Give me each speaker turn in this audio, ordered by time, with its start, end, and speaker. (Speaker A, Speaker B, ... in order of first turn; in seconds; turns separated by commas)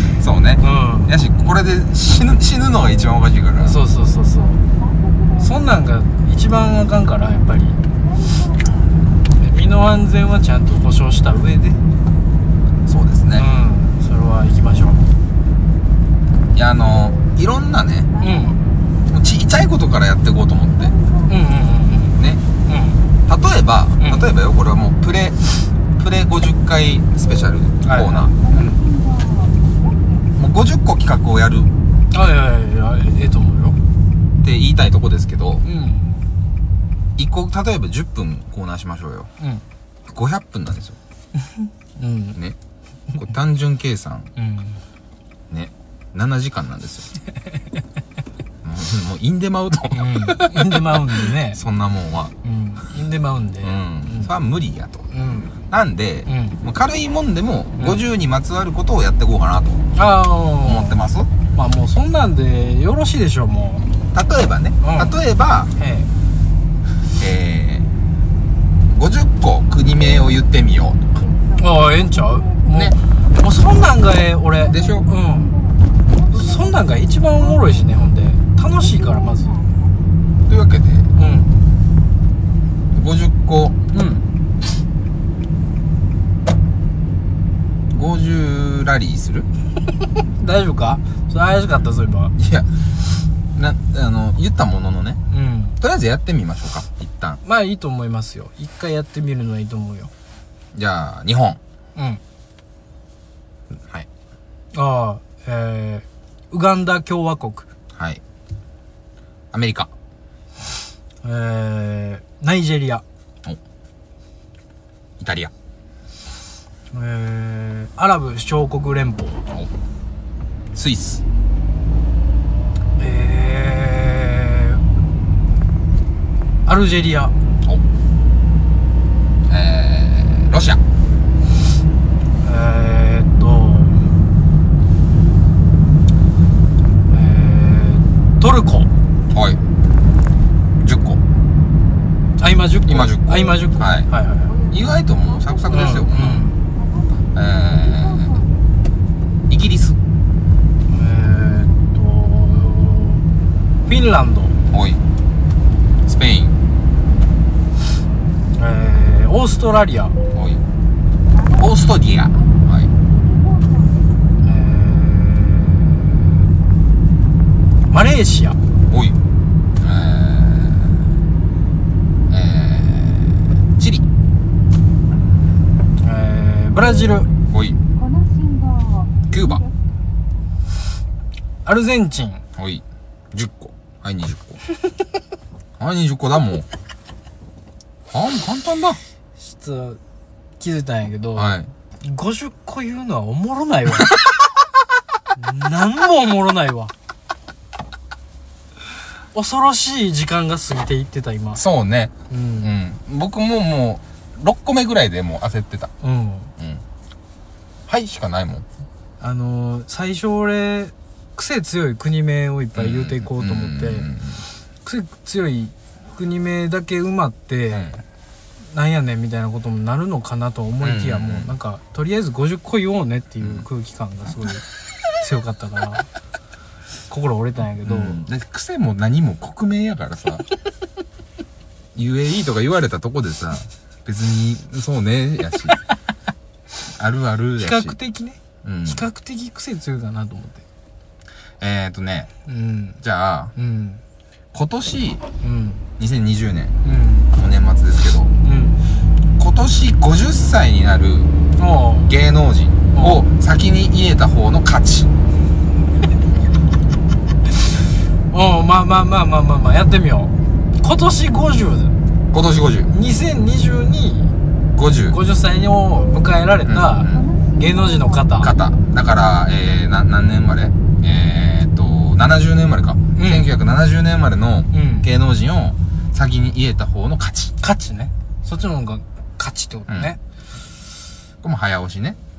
Speaker A: 0.2-3.8, Speaker B: 0.6-1.1, Speaker B: 3.6-4.6, Speaker C: 4.2-5.7, Speaker B: 5.4-7.8, Speaker C: 8.0-8.9, Speaker B: 9.4-11.8, Speaker A: 12.9-13.5, Speaker B: 13.3-15.1, Speaker A: 16.5-18.1, Speaker C: 18.1-18.6, Speaker B: 18.2-18.6, Speaker A: 19.1-20.9, Speaker C: 20.7-21.9, Speaker B: 21.3-23.0, Speaker A: 22.1-22.4, Speaker A: 23.3-25.4, Speaker B: 24.0-24.3, Speaker A: 25.9-28.4, Speaker B: 27.8-28.8, Speaker C: 28.3-30.4, Speaker A: 30.4-31.7, Speaker B: 32.1-33.8, Speaker A: 34.4-35.6, Speaker B: 35.6-36.1, Speaker A: 37.2-39.3, Speaker A: 40.1-41.0, Speaker B: 41.4-42.4, Speaker A: 43.1-44.3, Speaker B: 44.4-44.8, Speaker A: 45.5-47.1, Speaker A: 48.6-52.3, Speaker B: 49.9-51.6, Speaker B: 52.4-54.3, Speaker A: 53.6-59.8, Speaker B: 55.1-55.5, Speaker B: 56.2-56.6, Speaker B: 57.8-58.0, Speaker B: 59.9-61.0, Speaker A: 60.6-61.3, Speaker B: 61.5-63.9, Speaker A: 64.1-65.7, Speaker B: 64.8-65.2, Speaker B: 65.8-66.1, Speaker A: 67.2-67.9, Speaker A: 68.9-71.0, Speaker C: 71.1-72.9, Speaker B: 71.6-75.5, Speaker A: 72.7-72.9, Speaker C: 74.5-80.0, Speaker A: 74.7-75.0, Speaker B: 76.3-79.6, Speaker A: 80.5-81.1, Speaker B: 81.2-81.5, Speaker A: 82.9-83.8, Speaker B: 83.9-84.2, Speaker A: 87.9-89.5, Speaker B: 90.2-92.3, Speaker A: 92.3-92.7, Speaker A: 93.5-95.2, Speaker B: 95.3-95.8, Speaker A: 95.8-97.4, Speaker B: 97.4-100.1, Speaker A: 100.7-101.6, Speaker B: 102.0-102.2, Speaker A: 103.7-104.1, Speaker B: 104.7-107.7, Speaker A: 107.9-108.2, Speaker A: 109.5-109.9, Speaker B: 111.2-113.0, Speaker A: 115.2-115.5, Speaker B: 116.9-119.4, Speaker A: 120.7-121.2, Speaker B: 123.0-124.8, Speaker B: 126.7-127.3, Speaker A: 129.5-130.8, Speaker B: 132.4-134.0, Speaker B: 137.1-138.9, Speaker A: 139.3-139.6, Speaker A: 140.8-141.2, Speaker B: 142.4-144.5, Speaker A: 142.9-144.1, Speaker C: 144.4-148.7, Speaker A: 144.7-146.4, Speaker B: 145.7-146.6, Speaker A: 147.3-148.4, Speaker A: 149.5-150.0, Speaker B: 150.9-153.2, Speaker B: 153.8-154.6, Speaker A: 154.7-155.0, Speaker A: 156.1-156.6, Speaker B: 158.5-160.2, Speaker A: 160.3-160.6, Speaker C: 161.3-164.2, Speaker A: 161.6-162.9, Speaker B: 164.4-166.3, Speaker B: 167.9-168.6, Speaker A: 168.9-169.2, Speaker A: 169.8-171.0, Speaker A: 172.3-174.0, Speaker B: 176.0-177.3, Speaker A: 177.5-177.8, Speaker C: 177.9-179.7, Speaker A: 179.3-179.6, Speaker B: 181.6-182.4, Speaker A: 182.6-184.6, Speaker A: 185.8-186.7, Speaker A: 188.1-189.0, Speaker B: 189.4-190.0, Speaker B: 190.6-194.2, Speaker A: 191.3-191.7, Speaker B: 195.3-196.9, Speaker B: 199.3-201.6, Speaker A: 201.5-205.9, Speaker B: 202.3-202.7, Speaker B: 206.0-206.5, Speaker A: 206.6-206.8, Speaker A: 207.9-208.6, Speaker B: 209.2-214.1, Speaker A: 212.7-214.4, Speaker B: 214.8-218.0, Speaker A: 217.7-218.0, Speaker B: 218.7-224.7, Speaker A: 220.8-221.5, Speaker B: 225.2-226.1, Speaker B: 227.1-228.2, Speaker A: 227.8-230.4, Speaker A: 231.9-235.8, Speaker A: 236.9-238.0, Speaker B: 237.6-240.6, Speaker A: 238.6-239.0, Speaker A: 241.6-242.3, Speaker B: 242.5-243.0, Speaker A: 243.0-243.5, Speaker B: 243.6-244.0, Speaker A: 244.5-245.2, Speaker B: 245.4-245.8, Speaker A: 246.0-246.8, Speaker B: 246.8-247.3, Speaker A: 247.3-248.3, Speaker B: 248.4-248.8, Speaker A: 249.4-251.3, Speaker B: 251.6-252.1, Speaker A: 252.1-255.1, Speaker B: 252.9-253.2, Speaker B: 258.3-261.9, Speaker A: 262.3-262.9, Speaker B: 262.9-264.3, Speaker A: 264.7-265.2, Speaker B: 265.1-268.5, Speaker A: 266.6-267.2, Speaker C: 267.0-268.6, Speaker A: 268.4-277.5, Speaker B: 273.1-273.5, Speaker B: 274.7-275.1, Speaker B: 277.6-280.2, Speaker A: 279.9-280.1, Speaker A: 281.4-282.2